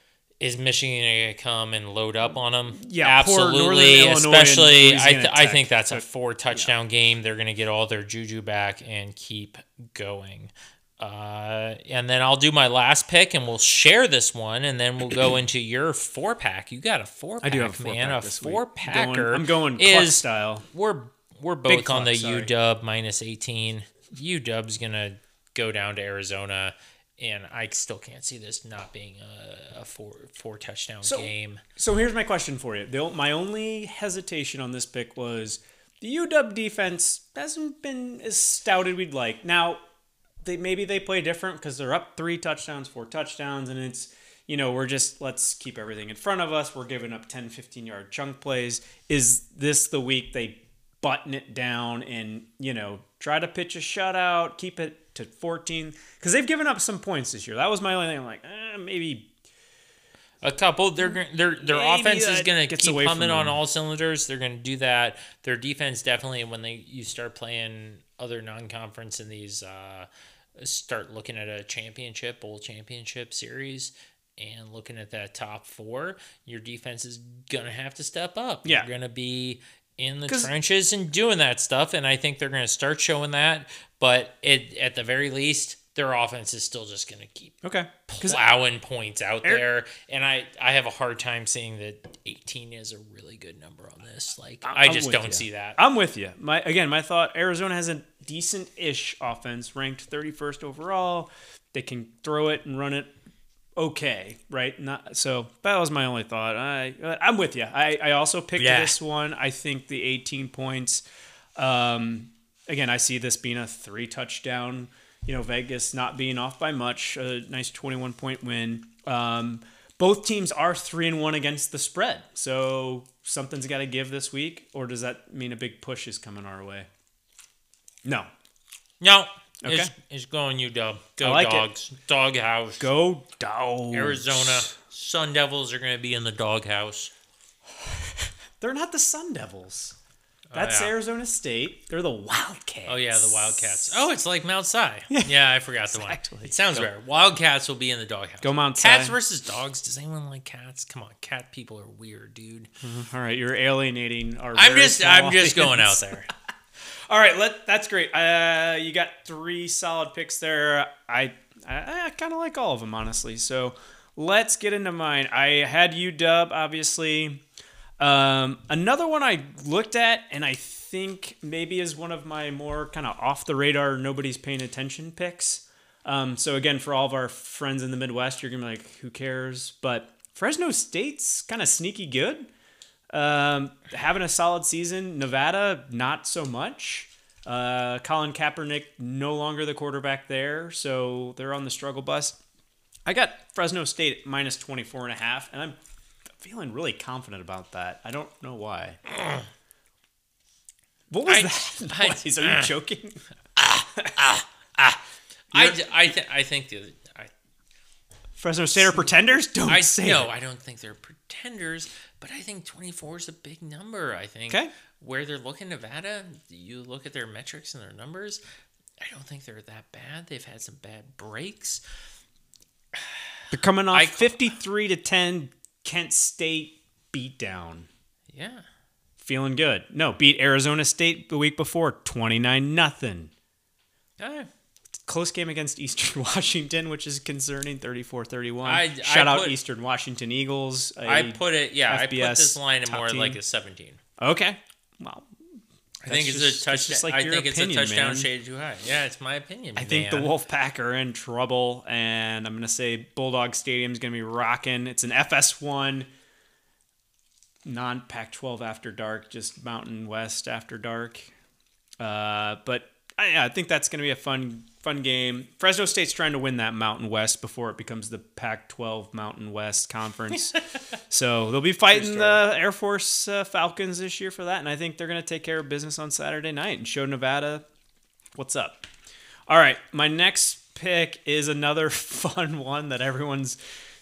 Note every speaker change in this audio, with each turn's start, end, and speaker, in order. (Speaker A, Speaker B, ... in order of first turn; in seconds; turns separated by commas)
Speaker A: 0.4-31.6, Speaker B: 2.8-6.7, Speaker B: 17.4-20.7, Speaker B: 21.7-22.5, Speaker B: 31.0-39.8, Speaker B: 40.4-59.3, Speaker A: 60.4-95.8, Speaker B: 61.0-63.6, Speaker B: 78.6-78.9, Speaker B: 80.3-80.5, Speaker B: 87.6-88.4, Speaker B: 94.6-103.1, Speaker B: 103.8-111.0, Speaker A: 108.6-109.0, Speaker B: 111.6-126.9, Speaker B: 128.0-128.3, Speaker A: 129.0-132.9, Speaker B: 129.6-129.9, Speaker B: 131.2-131.7, Speaker B: 132.8-134.7, Speaker A: 133.9-137.1, Speaker B: 137.9-140.0, Speaker A: 140.5-140.9, Speaker B: 140.5-144.0, Speaker A: 142.9-152.7, Speaker B: 145.9-146.9, Speaker B: 148.4-149.2, Speaker B: 152.8-156.2, Speaker A: 154.5-156.3, Speaker B: 156.9-167.4, Speaker B: 168.0-182.5, Speaker B: 183.1-192.4, Speaker B: 193.1-195.8, Speaker B: 196.3-199.0, Speaker A: 199.1-199.5, Speaker B: 201.1-205.0, Speaker A: 201.3-202.7, Speaker A: 205.5-207.3, Speaker B: 205.5-206.0, Speaker B: 208.4-210.3, Speaker A: 208.8-209.1, Speaker A: 209.7-218.4, Speaker A: 219.0-221.8, Speaker A: 222.9-224.5, Speaker B: 223.5-227.9, Speaker A: 228.3-228.6, Speaker B: 229.2-233.3, Speaker A: 234.2-234.5, Speaker B: 235.1-243.4, Speaker A: 238.6-239.6, Speaker A: 241.1-244.0, Speaker B: 244.2-245.3, Speaker A: 246.0-250.3, Speaker B: 246.1-248.3, Speaker B: 249.8-256.1, Speaker B: 257.6-261.3, Speaker B: 262.0-270.6, Speaker B: 271.1-277.6, Speaker A: 271.9-272.4, Speaker B: 278.4-278.9, Speaker B: 279.5-283.6